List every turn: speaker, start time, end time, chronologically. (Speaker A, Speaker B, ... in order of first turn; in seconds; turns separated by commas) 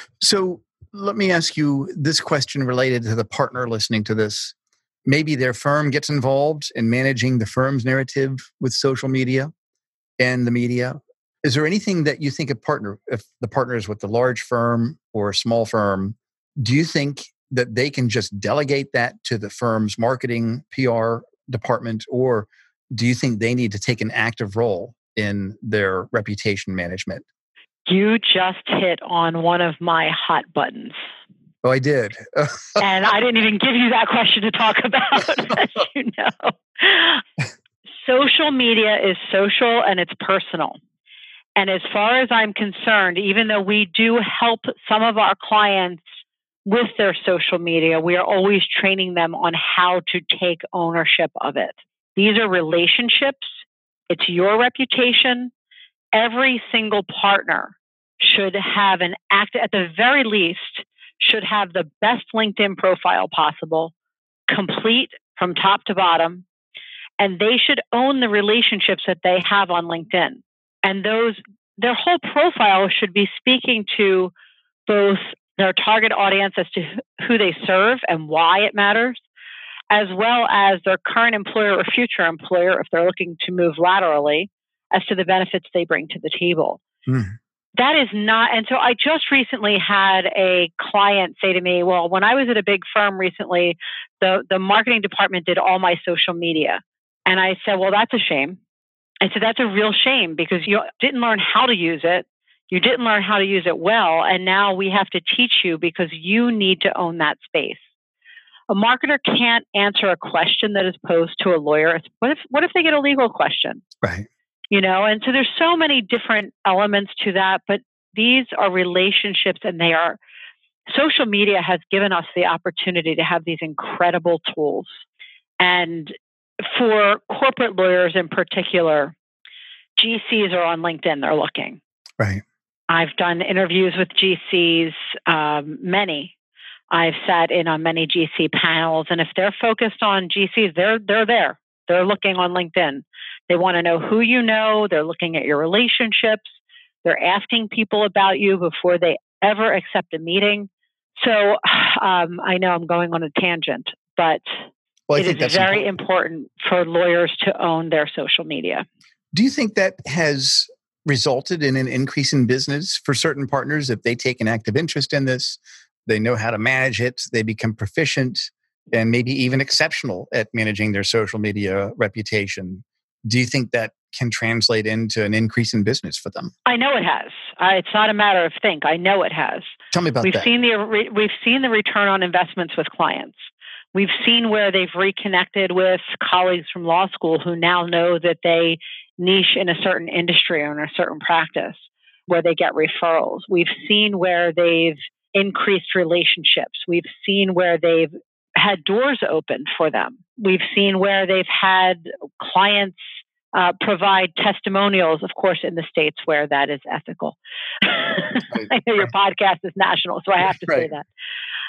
Speaker A: 0.2-4.5, Speaker A: 5.1-9.5, Speaker A: 10.2-27.2, Speaker B: 27.9-31.0, Speaker A: 31.6-32.8, Speaker B: 32.8-37.2, Speaker B: 38.0-40.8, Speaker B: 41.6-46.0, Speaker B: 46.6-53.5, Speaker B: 54.1-55.5, Speaker B: 56.1-63.9, Speaker B: 64.5-66.5, Speaker B: 67.2-74.3, Speaker B: 74.9-79.2, Speaker B: 79.9-86.8, Speaker A: 87.1-87.3, Speaker B: 87.8-98.6, Speaker B: 99.2-107.8, Speaker B: 108.7-113.8, Speaker A: 114.0-114.3, Speaker B: 114.7-120.2, Speaker B: 120.9-124.9, Speaker B: 125.6-129.2, Speaker B: 130.0-131.8, Speaker B: 132.9-136.3, Speaker B: 136.9-146.5, Speaker B: 147.0-154.4, Speaker A: 155.1-155.9, Speaker B: 155.2-158.8, Speaker A: 159.3-176.5, Speaker B: 176.7-179.7, Speaker A: 179.9-180.5, Speaker B: 180.2-183.4, Speaker B: 183.9-203.0, Speaker B: 203.5-211.1